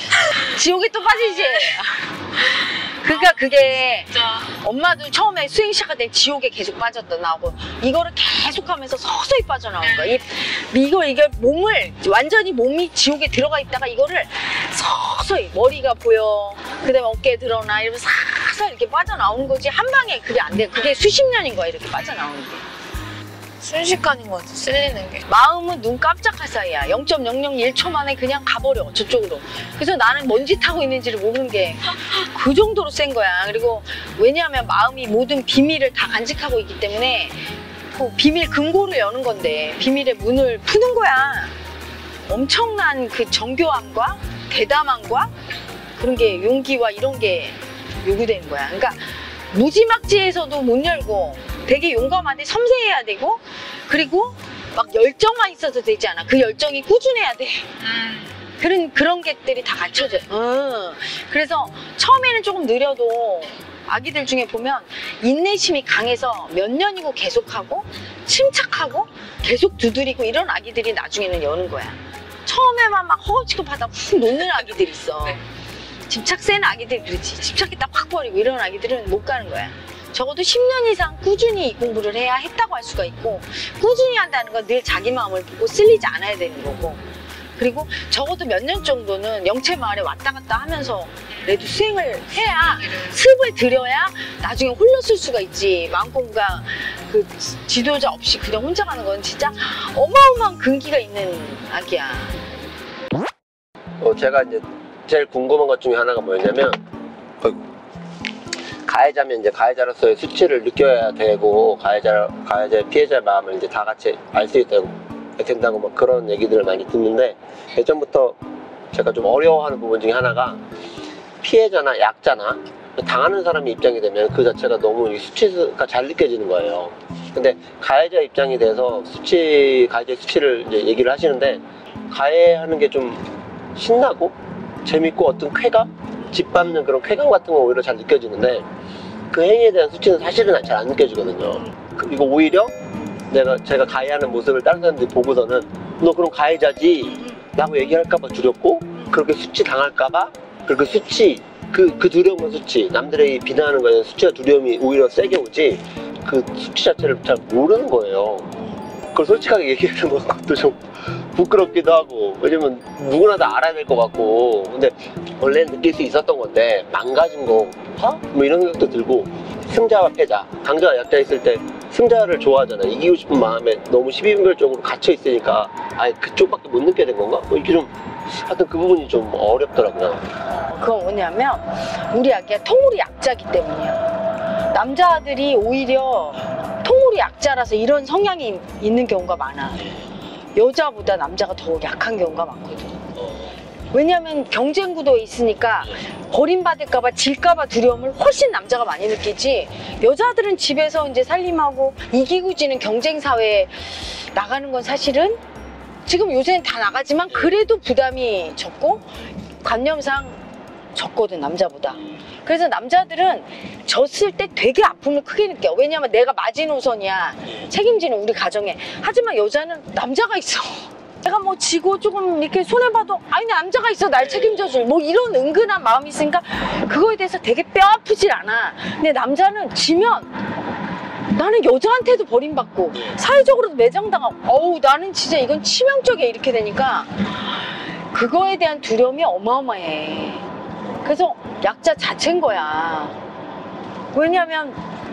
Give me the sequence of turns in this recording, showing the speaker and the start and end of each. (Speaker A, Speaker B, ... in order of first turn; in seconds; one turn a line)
Speaker A: 0.3-22.6
Speaker B: 9.9-10.2
Speaker B: 23.6-25.2
Speaker A: 25.3-41.5
Speaker A: 42.3-45.3
Speaker A: 46.0-57.7
Speaker B: 57.8-58.3
Speaker A: 58.6-75.4
Speaker A: 76.1-87.0
Speaker A: 87.6-102.4
Speaker C: 104.0-106.8
Speaker C: 108.8-118.4
Speaker C: 118.9-120.6
Speaker C: 121.4-138.7
Speaker C: 139.3-142.7
Speaker C: 143.3-158.5
Speaker C: 159.1-180.3
Speaker A: 180.7-184.1
Speaker A: 184.7-189.8
Speaker C: 189.8-190.1
Speaker A: 190.6-193.0
Speaker C: 193.1-193.6
Speaker A: 193.9-205.4
Speaker A: 206.1-209.1
Speaker A: 209.6-210.4
Speaker A: 210.9-230.3
Speaker C: 224.2-224.8
Speaker A: 231.3-237.2
Speaker C: 232.9-233.2
Speaker A: 238.1-240.4
Speaker A: 241.0-243.2
Speaker A: 244.1-244.8